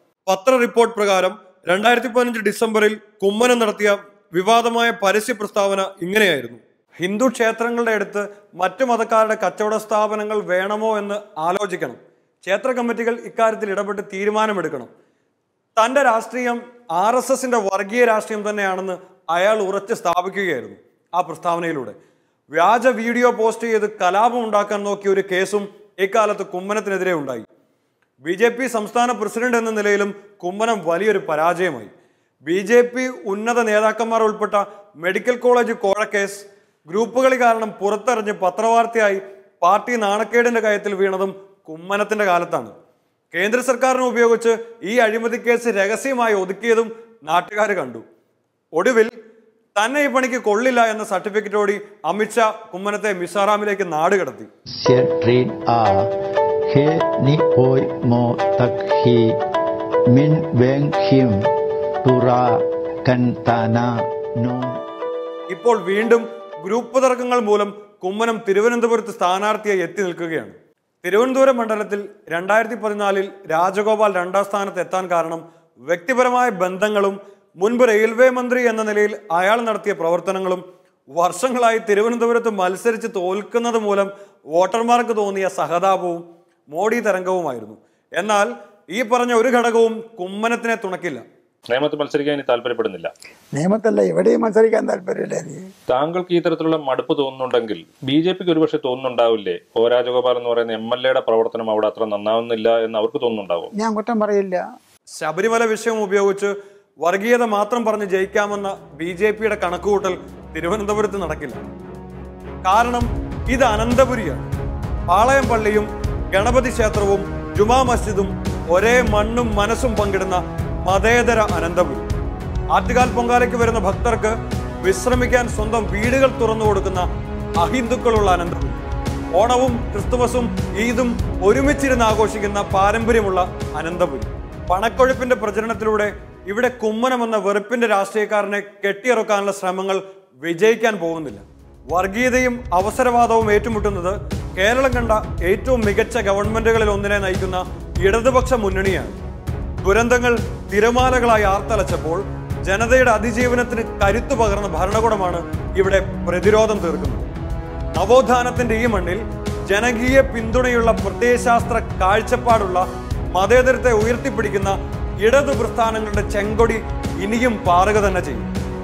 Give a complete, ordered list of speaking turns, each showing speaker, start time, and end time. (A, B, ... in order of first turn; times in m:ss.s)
0:00.3-0:14.9 A
0:15.8-0:22.0 A
0:22.5-0:27.4 A
0:28.2-0:31.9 A
0:32.5-0:42.7 A
0:43.3-0:48.0 A
0:48.7-0:49.1 A
0:49.8-0:54.5 A
0:54.8-0:56.1 B
0:56.7-0:59.4 B
1:00.1-1:01.4 B
1:02.0-1:04.8 B
1:05.5-1:20.6 A
1:21.1-1:31.2 A
1:31.7-1:33.1 C
1:33.5-1:35.7 D
1:35.9-1:43.7 C
1:43.8-1:44.6 D
1:45.2-1:51.6 A
1:52.6-1:54.4 A
1:55.1-2:02.0 A
2:02.7-2:07.1 A
2:07.6-2:08.8 A
2:09.3-2:29.2 A
2:29.8-2:37.3 A
2:38.0-2:48.5 A